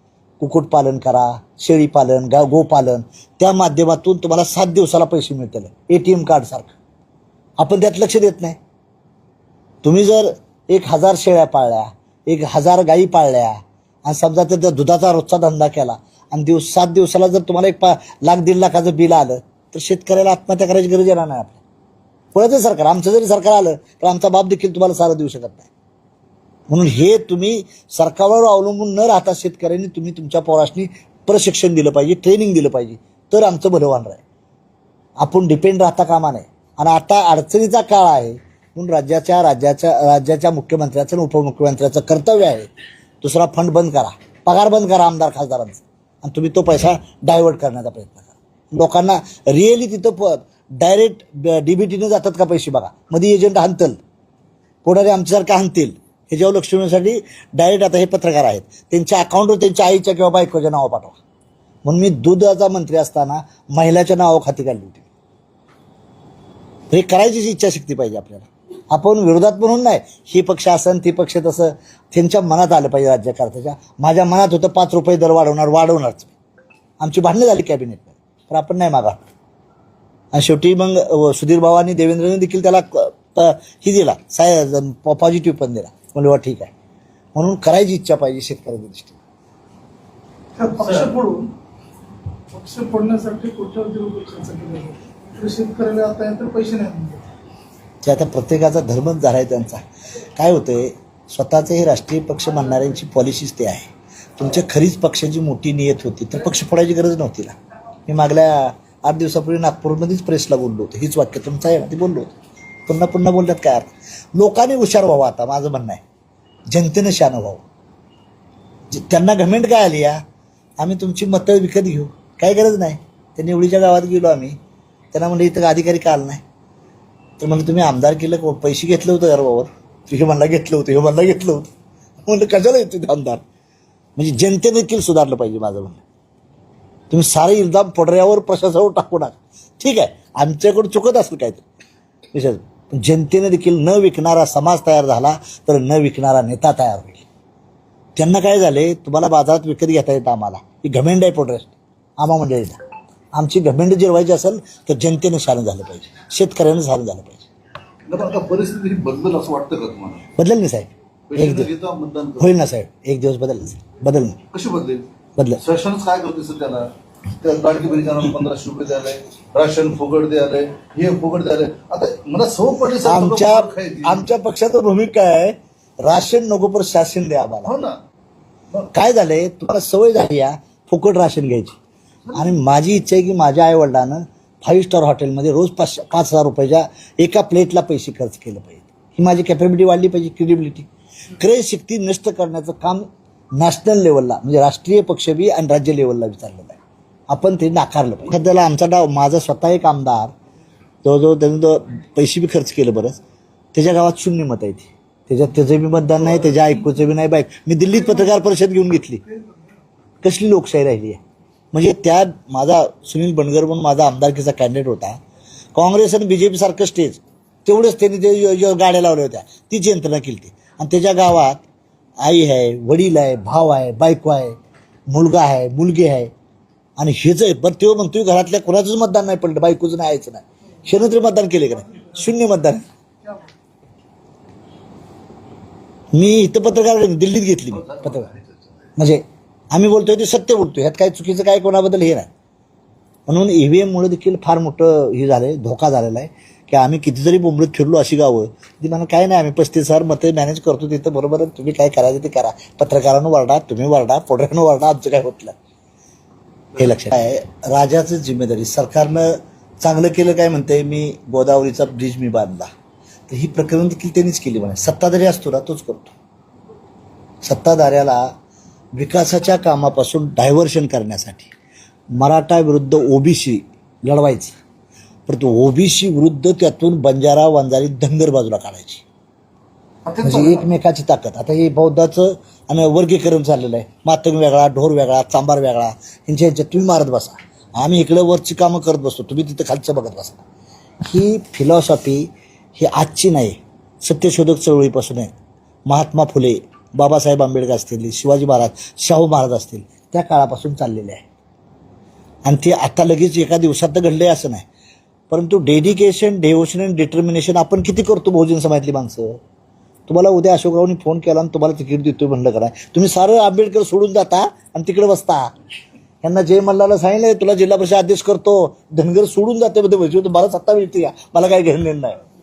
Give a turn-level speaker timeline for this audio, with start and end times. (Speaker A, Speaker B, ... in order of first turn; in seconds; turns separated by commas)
Speaker A: 0.4-6.7, Speaker A: 7.6-8.6, Speaker A: 9.8-21.6, Speaker A: 22.3-25.7, Speaker A: 26.7-34.2, Speaker A: 35.2-42.7, Speaker A: 43.2-54.0, Speaker A: 54.8-61.2, Speaker A: 61.8-65.1, Speaker A: 66.9-76.3, Speaker A: 77.0-79.3, Speaker A: 80.3-86.7, Speaker A: 87.3-89.2, Speaker B: 90.6-91.5, Speaker B: 92.5-97.2, Speaker A: 98.0-99.8, Speaker A: 100.3-107.5, Speaker A: 108.1-112.3, Speaker A: 112.9-116.0, Speaker A: 116.7-117.6, Speaker A: 118.9-120.2, Speaker A: 120.8-124.5, Speaker A: 125.1-126.4, Speaker A: 127.4-131.7, Speaker A: 132.3-133.4, Speaker A: 134.2-136.0, Speaker A: 137.1-141.6, Speaker A: 142.3-147.2, Speaker A: 148.2-152.8, Speaker A: 153.3-157.5, Speaker C: 158.1-160.3, Speaker A: 160.4-161.7, Speaker C: 161.3-162.5, Speaker A: 162.4-164.4, Speaker C: 164.5-165.1, Speaker A: 165.4-165.6, Speaker C: 165.6-174.3, Speaker A: 173.0-177.7, Speaker C: 177.6-178.0, Speaker A: 178.9-181.8, Speaker A: 182.3-196.8, Speaker A: 197.3-200.3, Speaker A: 201.0-203.2, Speaker A: 203.7-209.2, Speaker A: 210.2-211.2, Speaker A: 211.7-215.2, Speaker A: 215.7-221.6, Speaker A: 222.2-224.6, Speaker A: 225.1-226.3, Speaker A: 227.0-232.8, Speaker A: 236.1-238.3, Speaker C: 237.8-238.5, Speaker A: 239.0-242.3, Speaker A: 243.3-255.5, Speaker A: 256.8-262.7, Speaker A: 263.3-266.1, Speaker A: 267.4-268.3, Speaker A: 268.9-271.5, Speaker A: 272.1-274.6, Speaker A: 275.3-279.0, Speaker C: 280.1-280.6, Speaker A: 280.2-290.4, Speaker A: 291.0-295.3, Speaker A: 295.9-301.2, Speaker A: 302.4-304.6, Speaker A: 305.3-309.4, Speaker A: 310.1-315.5, Speaker A: 316.2-322.2